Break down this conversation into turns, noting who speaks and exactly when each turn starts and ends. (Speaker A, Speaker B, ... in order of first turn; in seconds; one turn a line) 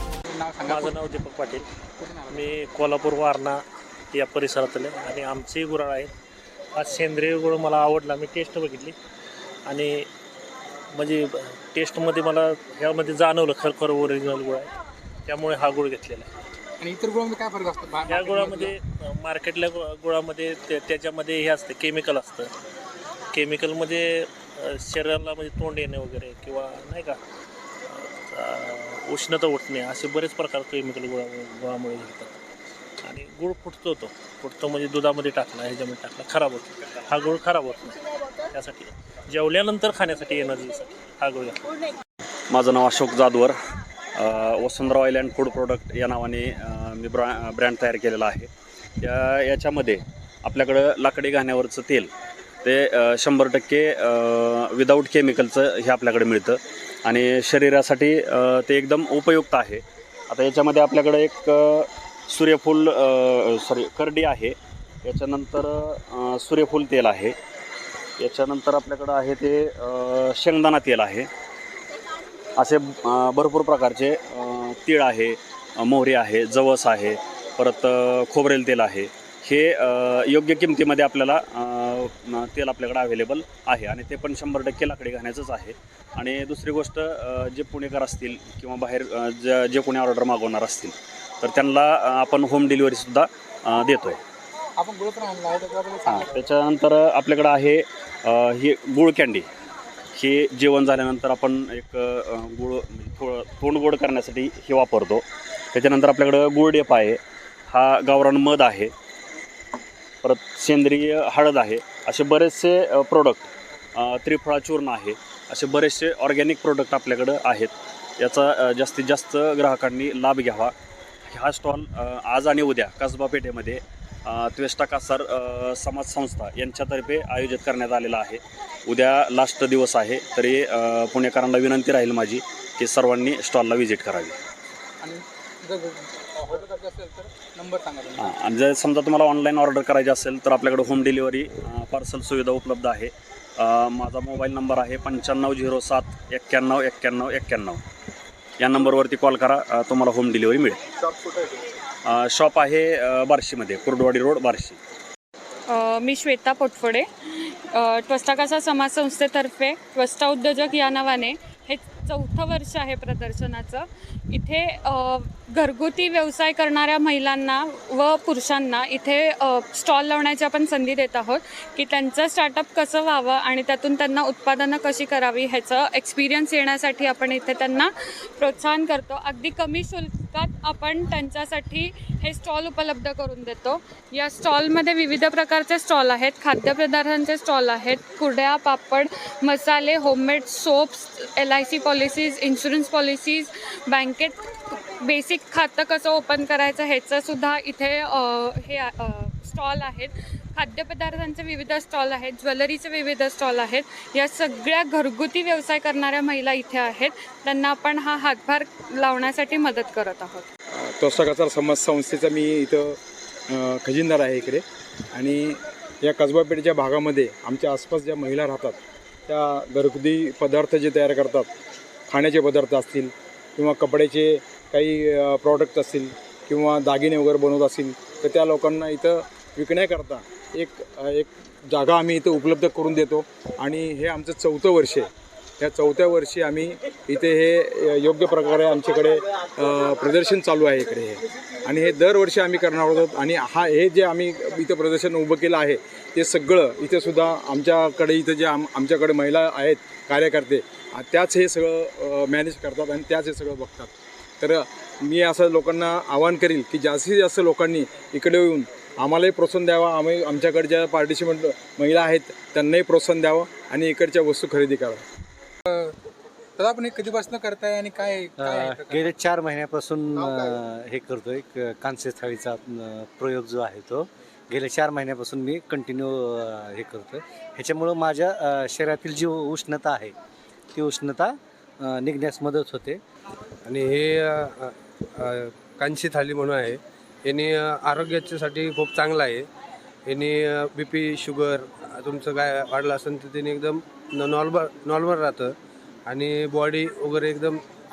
Speaker A: 0.3-0.9
Speaker B: 0.6-1.7
Speaker B: 2.3-3.6
Speaker B: 4.1-6.1
Speaker B: 6.8-8.9
Speaker B: 9.7-10.1
Speaker B: 10.9-14.7
Speaker B: 15.3-16.3
Speaker A: 16.8-18.7
Speaker B: 18.1-22.5
Speaker B: 23.3-27.2
Speaker B: 27.9-32.3
Speaker B: 33.0-38.0
Speaker B: 38.5-41.7
Speaker C: 42.5-43.5
Speaker C: 44.2-48.5
Speaker C: 49.0-52.1
Speaker C: 52.6-67.3
Speaker C: 68.2-71.3
Speaker C: 72.6-94.2
Speaker A: 94.8-96.4
Speaker C: 96.0-99.5
Speaker C: 100.2-107.2
Speaker C: 107.7-108.9
Speaker C: 110.2-120.7
Speaker C: 121.3-134.4
Speaker A: 135.0-138.2
Speaker C: 138.2-147.8
Speaker C: 148.6-150.8
Speaker C: 152.1-154.8
Speaker D: 155.7-210.4
Speaker E: 210.8-213.0
Speaker E: 213.5-221.5
Speaker E: 222.1-265.0
Speaker A: 266.6-268.3
Speaker F: 268.4-280.1
Speaker F: 280.8-281.3
Speaker F: 281.8-283.0
Speaker G: 283.6-289.5
Speaker G: 290.1-295.6
Speaker G: 296.1-297.6